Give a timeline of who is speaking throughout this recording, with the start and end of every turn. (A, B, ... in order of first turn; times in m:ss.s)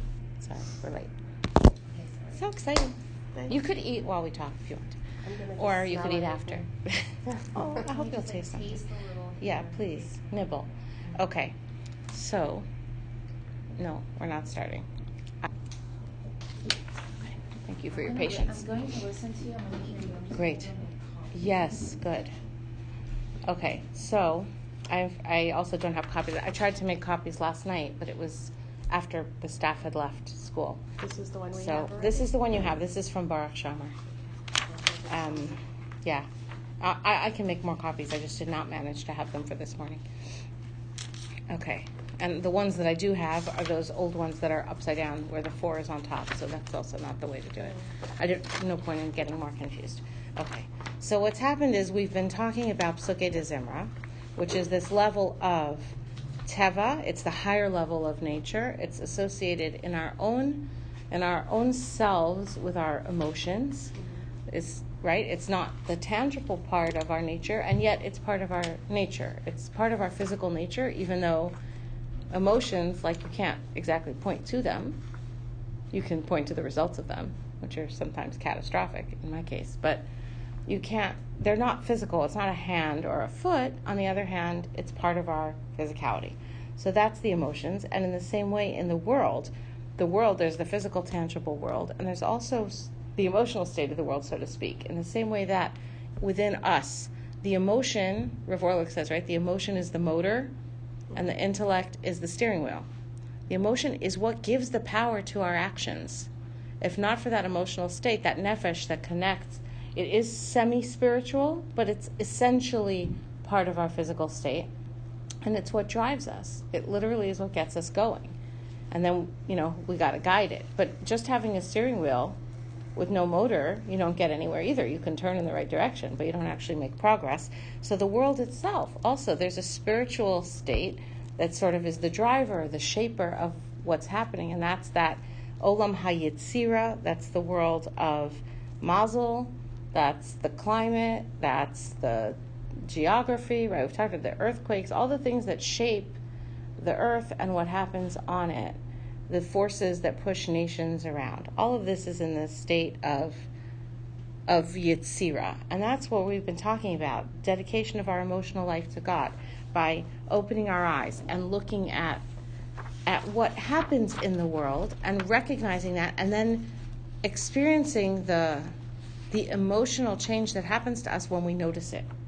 0:00.4-0:01.1 A
0:01.9-0:02.4 B
0:02.3-0:03.0 A
0:03.5-0:05.0 A
0:05.2-0:06.6 C
0:05.6-0:08.8 A
0:07.6-0:10.1 B
0:09.4-0:11.6 A
0:12.1-0:12.6 A
0:13.8-0:14.8 A
0:17.3-0:18.7 A
0:17.9-0:21.7 B
0:20.3-0:20.7 A
0:21.3-0:22.3 A
0:23.4-0:30.8 A
0:31.0-0:32.3 C
0:31.6-0:33.9 A
0:34.7-0:35.4 C
0:35.1-0:36.3 A
0:36.8-0:40.0 A
0:41.5-1:03.9 A
1:04.5-1:11.6 A
1:12.3-1:15.0 A
1:15.9-1:20.0 A
1:20.7-1:40.5 A
1:41.1-1:42.9 A
1:43.5-1:46.3 A
1:46.8-1:54.7 A
1:55.4-1:58.4 A
1:58.9-2:02.4 A
2:03.0-2:26.2 A
2:26.8-2:33.5 A
2:34.5-2:42.2 A
2:43.0-2:46.7 A
2:47.2-2:48.7 A
2:49.3-2:52.1 A